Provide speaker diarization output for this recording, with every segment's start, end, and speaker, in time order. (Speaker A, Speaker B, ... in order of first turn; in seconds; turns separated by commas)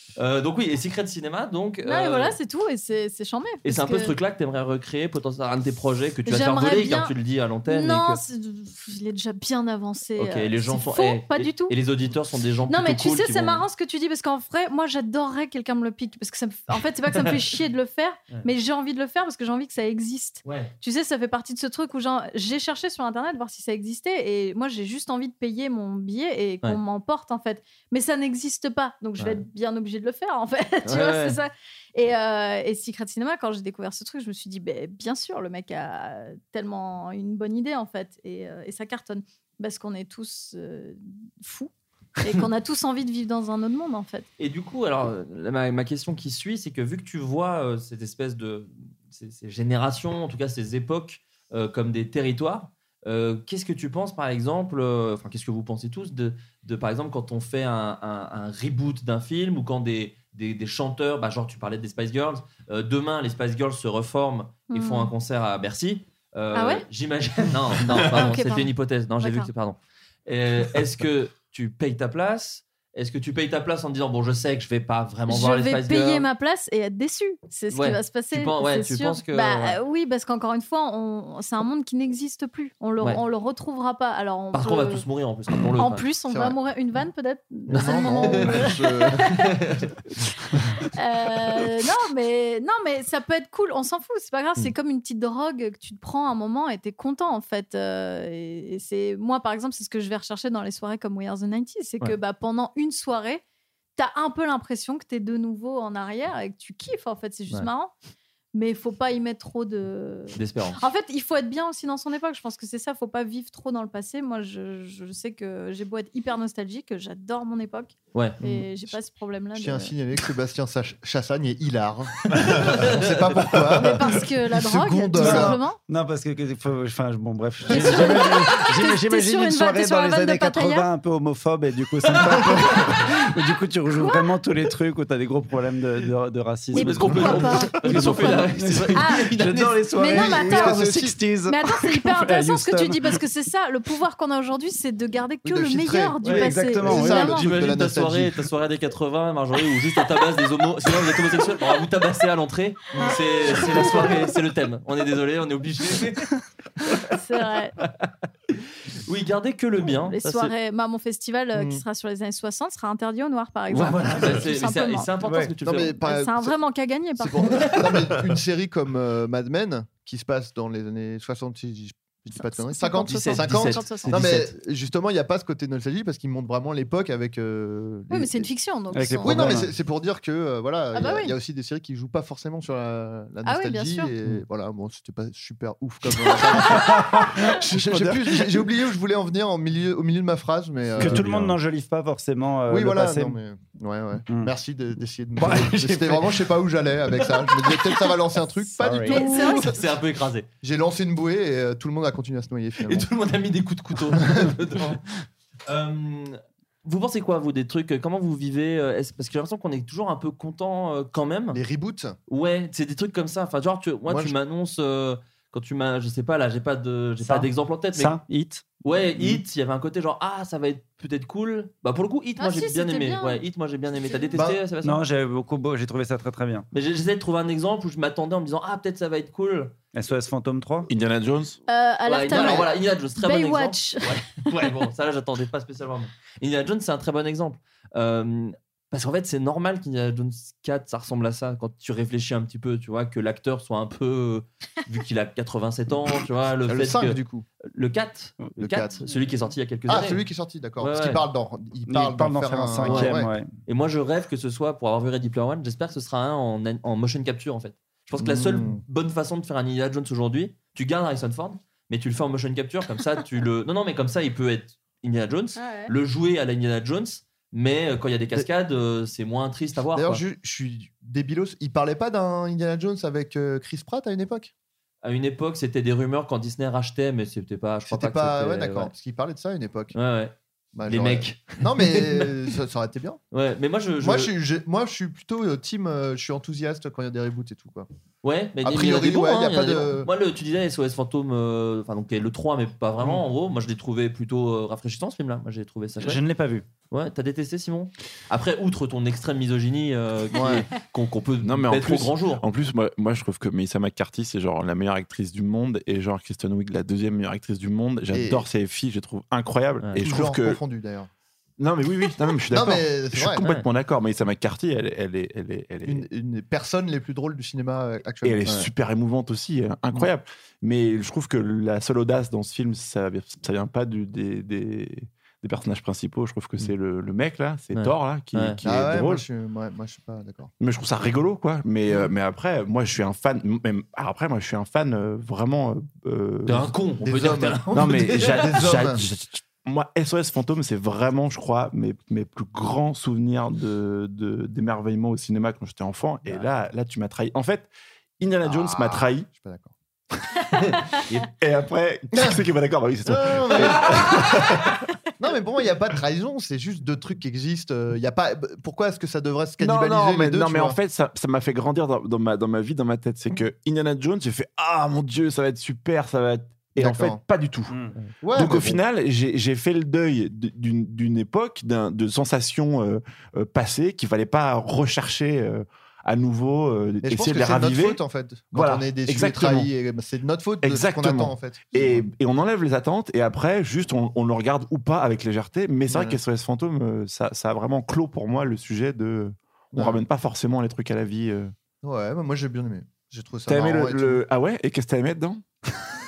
Speaker A: 0.1-2.4, Speaker B: 1.8-4.1, Speaker A: 3.6-8.2, Speaker B: 6.2-7.1, Speaker B: 7.7-11.7, Speaker A: 10.2-13.6, Speaker B: 12.7-41.7, Speaker A: 20.4-20.7, Speaker A: 30.8-31.4, Speaker B: 42.2-44.3, Speaker A: 44.4-76.3, Speaker B: 64.7-65.1, Speaker B: 66.5-66.8, Speaker B: 68.0-69.5, Speaker B: 75.3-85.0, Speaker A: 77.7-79.8, Speaker A: 84.5-86.0, Speaker B: 85.8-89.5, Speaker C: 86.3-86.6, Speaker C: 87.7-89.4, Speaker A: 87.7-89.9, Speaker B: 90.9-103.4, Speaker B: 104.0-107.9, Speaker B: 108.5-119.9, Speaker A: 110.3-110.8, Speaker A: 118.1-118.4, Speaker C: 118.4-118.9, Speaker C: 119.5-125.6, Speaker A: 122.3-123.4, Speaker B: 123.8-125.8, Speaker D: 125.2-143.2, Speaker B: 127.7-130.9, Speaker A: 132.1-132.9, Speaker B: 133.9-134.3, Speaker B: 136.7-139.3, Speaker A: 136.7-139.8, Speaker B: 139.9-140.9, Speaker C: 140.1-141.2, Speaker B: 141.4-147.6, Speaker C: 145.4-146.2, Speaker D: 146.2-147.3, Speaker C: 146.8-148.3, Speaker A: 147.2-156.3, Speaker B: 153.0-153.9, Speaker B: 156.9-157.8, Speaker A: 158.0-160.5, Speaker B: 159.9-165.1, Speaker C: 161.5-161.8, Speaker A: 163.7-165.9, Speaker D: 165.2-165.5, Speaker C: 165.6-166.6, Speaker B: 166.0-167.8, Speaker C: 167.2-178.5, Speaker A: 167.7-168.0, Speaker B: 172.3-174.2, Speaker A: 173.1-174.5, Speaker B: 178.1-179.6, Speaker D: 178.9-179.7, Speaker C: 179.2-191.5, Speaker B: 180.9-181.3, Speaker B: 183.4-184.1, Speaker D: 191.0-193.4, Speaker E: 191.0-191.5, Speaker C: 192.7-199.8, Speaker D: 195.4-196.4, Speaker D: 198.8-199.2, Speaker B: 199.1-199.7, Speaker A: 199.1-200.5, Speaker C: 200.6-203.1, Speaker A: 202.8-205.0, Speaker C: 204.2-204.5, Speaker A: 205.7-211.6, Speaker C: 211.5-212.2, Speaker A: 212.3-218.2, Speaker C: 214.1-214.3, Speaker D: 217.2-218.6, Speaker A: 218.8-225.0, Speaker B: 222.4-223.4, Speaker B: 224.0-224.4, Speaker D: 224.8-226.7, Speaker A: 226.7-229.7, Speaker D: 229.9-230.9, Speaker E: 230.9-231.6, Speaker B: 231.7-234.2, Speaker A: 232.1-250.2, Speaker C: 232.3-232.7, Speaker C: 246.7-247.4, Speaker C: 248.6-249.0, Speaker C: 249.9-253.3, Speaker A: 250.8-251.2, Speaker D: 251.9-253.5, Speaker A: 252.8-270.2, Speaker C: 258.2-258.8, Speaker B: 265.6-265.9, Speaker C: 269.9-274.5, Speaker A: 275.0-278.9, Speaker C: 277.9-279.9, Speaker A: 279.9-280.3, Speaker C: 280.7-283.2, Speaker A: 280.9-282.4, Speaker A: 283.3-284.3, Speaker C: 284.0-287.9, Speaker A: 288.2-296.2, Speaker C: 288.6-290.1, Speaker D: 296.0-296.6, Speaker A: 296.9-302.4, Speaker C: 300.3-300.6, Speaker E: 301.4-310.6, Speaker C: 308.1-308.4, Speaker C: 310.0-311.1, Speaker E: 311.6-316.1, Speaker C: 312.5-313.4, Speaker C: 315.8-318.4, Speaker E: 318.2-329.2, Speaker A: 327.7-328.6, Speaker C: 328.6-330.5, Speaker E: 330.6-336.7, Speaker A: 336.4-338.6, Speaker C: 337.0-339.0, Speaker E: 337.7-349.3, Speaker C: 348.4-349.7, Speaker E: 350.4-354.8, Speaker C: 352.1-352.4, Speaker C: 353.1-354.4, Speaker C: 355.2-360.8, Speaker E: 359.6-367.7, Speaker C: 366.8-367.2, Speaker D: 367.7-367.9, Speaker C: 368.2-368.8, Speaker E: 368.3-378.0, Speaker C: 377.0-382.1, Speaker E: 378.5-379.7, Speaker E: 380.6-391.5, Speaker C: 385.9-386.2, Speaker C: 389.7-390.0, Speaker C: 391.8-394.2, Speaker E: 393.5-395.9